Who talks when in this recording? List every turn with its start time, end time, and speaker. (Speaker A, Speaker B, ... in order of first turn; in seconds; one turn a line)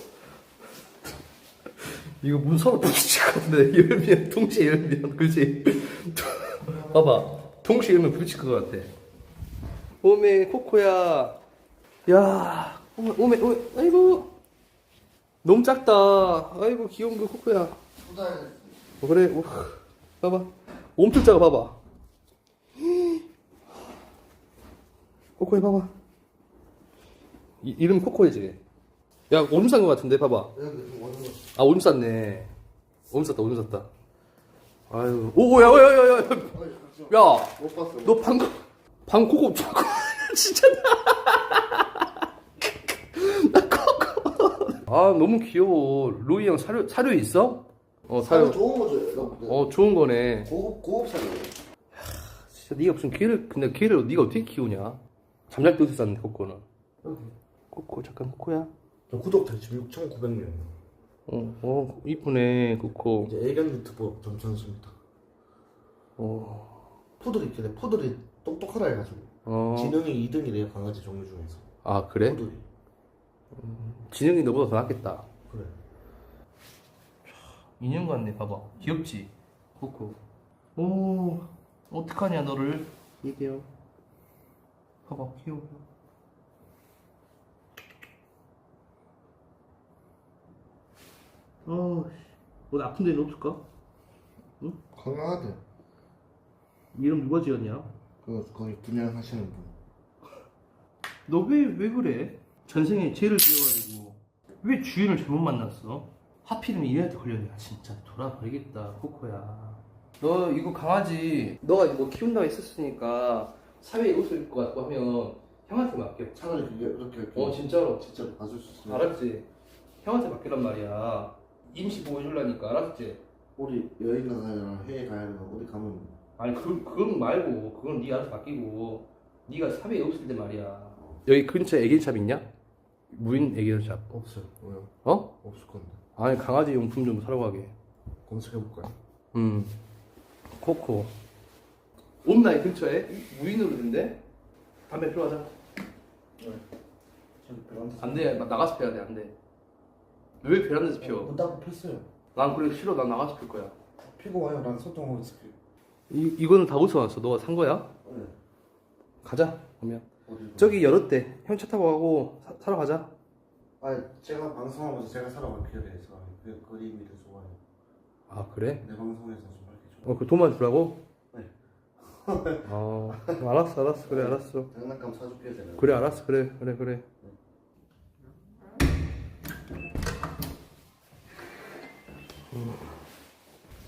Speaker A: 1.8-8.9
Speaker B: 6.6-7.2
Speaker A: 10.0-11.4
Speaker A: 12.1-14.3
Speaker A: 15.4-17.8
Speaker B: 18.0-18.6
Speaker A: 19.0-21.8
Speaker A: 22.8-23.2
Speaker A: 25.4-25.9
Speaker A: 27.6-28.6
Speaker A: 29.3-30.5
Speaker B: 30.5-31.5
Speaker A: 31.6-32.5
Speaker A: 33.1-33.9
Speaker A: 34.9-36.6
Speaker B: 36.0-38.3
Speaker A: 37.1-48.6
Speaker B: 48.2-49.7
Speaker A: 49.3-50.5
Speaker B: 50.4-51.5
Speaker A: 52.0-56.6
Speaker B: 57.0-57.3
Speaker A: 57.7-58.7
Speaker B: 59.1-60.7
Speaker A: 61.3-63.3
Speaker B: 63.2-65.0
Speaker A: 66.2-66.8
Speaker B: 67.2-71.7
Speaker A: 69.5-70.0
Speaker A: 71.8-72.4
Speaker B: 72.2-72.6
Speaker A: 73.5-75.3
Speaker B: 75.5-75.8
Speaker A: 77.3-80.2
Speaker A: 80.8-83.7
Speaker A: 85.1-85.8
Speaker A: 91.7-93.6
Speaker B: 94.9-95.6
Speaker A: 96.9-97.9
Speaker B: 98.2-99.7
Speaker A: 101.3-116.4
Speaker B: 116.3-119.1
Speaker A: 117.3-118.3
Speaker A: 118.8-119.5
Speaker A: 120.0-123.2
Speaker B: 123.6-126.2
Speaker A: 126.4-132.5
Speaker B: 131.0-131.2
Speaker A: 133.1-134.1
Speaker B: 134.1-136.0
Speaker A: 135.1-135.3
Speaker A: 136.2-137.7
Speaker B: 138.3-138.9
Speaker A: 139.3-139.8
Speaker A: 140.6-141.1
Speaker A: 142.2-144.2
Speaker A: 144.9-145.5
Speaker B: 147.4-148.5
Speaker A: 148.0-149.3
Speaker A: 150.4-151.4
Speaker B: 151.0-152.1
Speaker A: 152.3-153.8
Speaker B: 154.1-155.6
Speaker A: 156.1-157.9
Speaker B: 158.0-158.3
Speaker A: 159.2-160.1
Speaker B: 160.3-160.9
Speaker A: 160.6-163.1
Speaker B: 163.8-167.6
Speaker A: 168.3-168.8
Speaker B: 168.8-170.3
Speaker A: 170.0-171.0
Speaker B: 171.3-173.4
Speaker A: 172.6-174.7
Speaker B: 174.1-176.2
Speaker A: 175.8-177.1
Speaker A: 182.5-182.9